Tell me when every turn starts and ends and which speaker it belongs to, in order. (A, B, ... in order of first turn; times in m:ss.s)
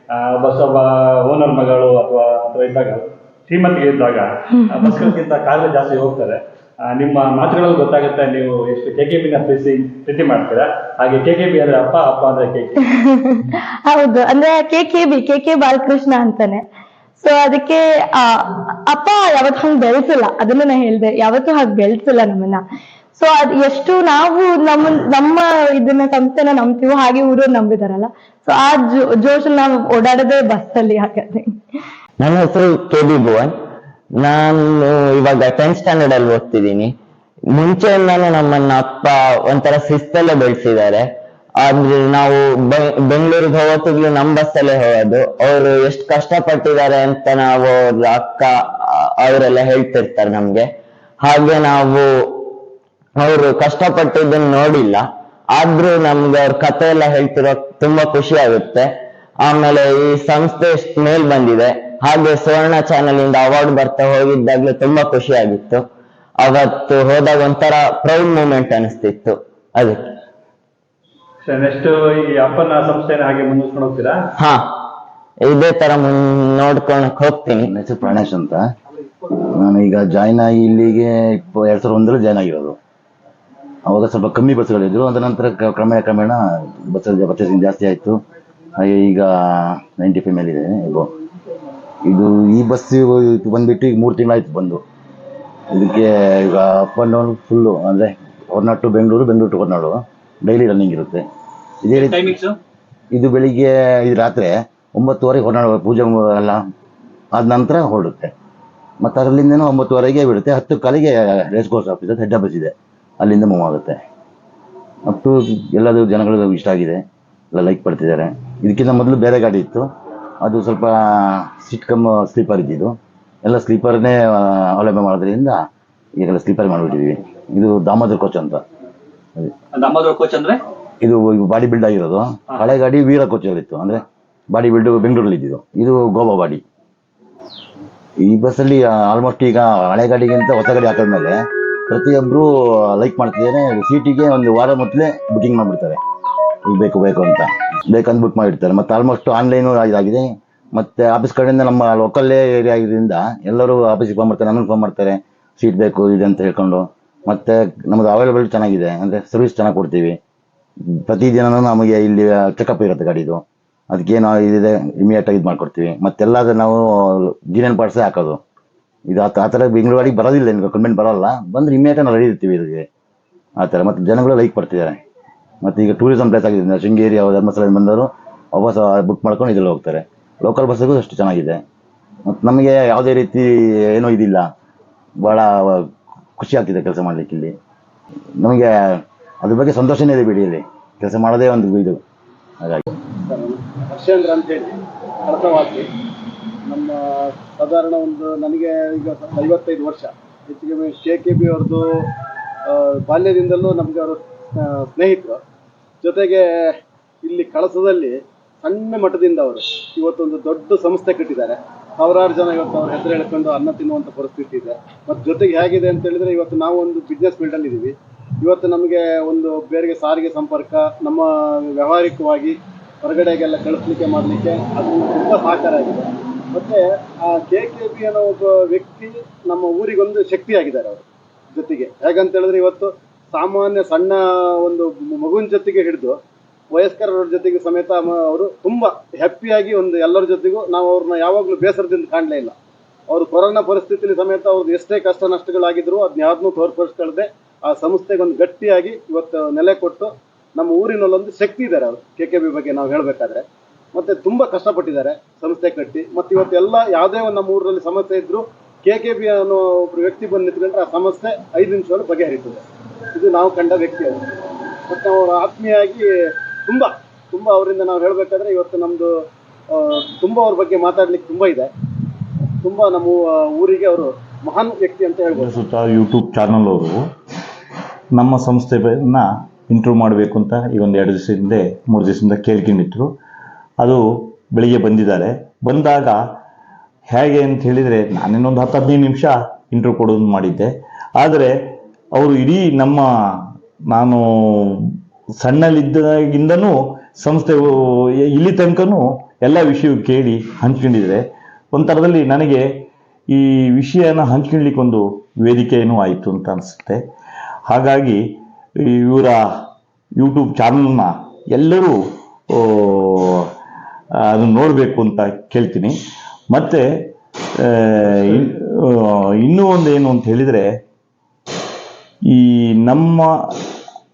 0:00.2-0:12.9 A
0:04.7-0:05.1 B
0:12.9-0:16.6 B
0:17.2-0:22.6 B
0:23.2-0:31.5 B
0:32.2-0:33.5 C
0:34.2-0:36.9 C
0:37.5-0:41.1 C
0:41.6-0:50.7 C
0:51.2-0:52.5 C
0:53.2-0:58.9 C
0:59.4-1:05.8 C
1:06.4-1:10.0 C
1:11.4-1:14.2 A
1:14.4-1:14.7 C
1:15.4-1:17.7 C
1:17.6-1:18.6 D
1:19.3-1:22.8 D
1:23.8-1:28.2 D
1:28.8-1:31.1 D
1:32.0-1:34.8 D
1:35.7-1:41.2 D
1:41.8-1:42.3 D
1:41.9-1:42.6 A
1:43.1-1:46.6 D
1:47.3-1:48.3 D
1:49.0-1:54.0 D
1:55.1-1:57.0 D
1:57.5-1:59.9 D
2:00.4-2:05.6 D
2:06.2-2:08.6 D
2:09.7-2:10.6 A
2:11.0-2:16.6 D
2:18.2-2:21.4 D
2:21.9-2:26.0 D
2:26.6-2:40.2 D
2:40.9-2:48.4 D
2:49.1-2:52.8 D
2:53.6-2:55.0 D
2:55.6-3:01.6 D
3:02.3-3:04.5 D
3:05.2-3:07.5 D
3:08.4-3:12.0 D
3:13.3-3:14.6 E
3:15.3-3:15.8 E
3:16.7-3:16.9 E
3:17.6-3:21.8 E
3:23.1-3:24.1 E
3:24.8-3:25.4 E
3:26.0-3:26.4 E
3:27.2-3:28.1 E
3:28.6-3:42.4 E
3:43.0-3:46.8 E
3:47.3-3:50.9 E
3:51.6-3:54.1 E
3:54.7-3:56.1 E
3:56.8-4:02.5 E
4:03.1-4:13.4 E
4:13.9-4:22.6 E
4:23.1-4:24.1 E
4:24.9-4:26.0 E
4:26.6-4:29.1 E
4:29.8-4:31.6 E
4:32.6-4:35.5 E
4:35.3-4:37.0 F
4:38.1-4:43.1 F
4:43.8-4:46.2 F
4:47.1-4:51.5 F
4:52.1-4:53.1 F
4:53.9-4:54.8 F
4:55.4-5:02.6 F
5:03.3-5:07.0 F
5:07.7-5:09.4 F
5:10.2-5:12.0 F
5:12.5-5:13.5 F
5:14.2-5:15.9 F
5:16.5-5:16.8 F
5:17.6-5:20.7 F
5:22.3-5:23.3 F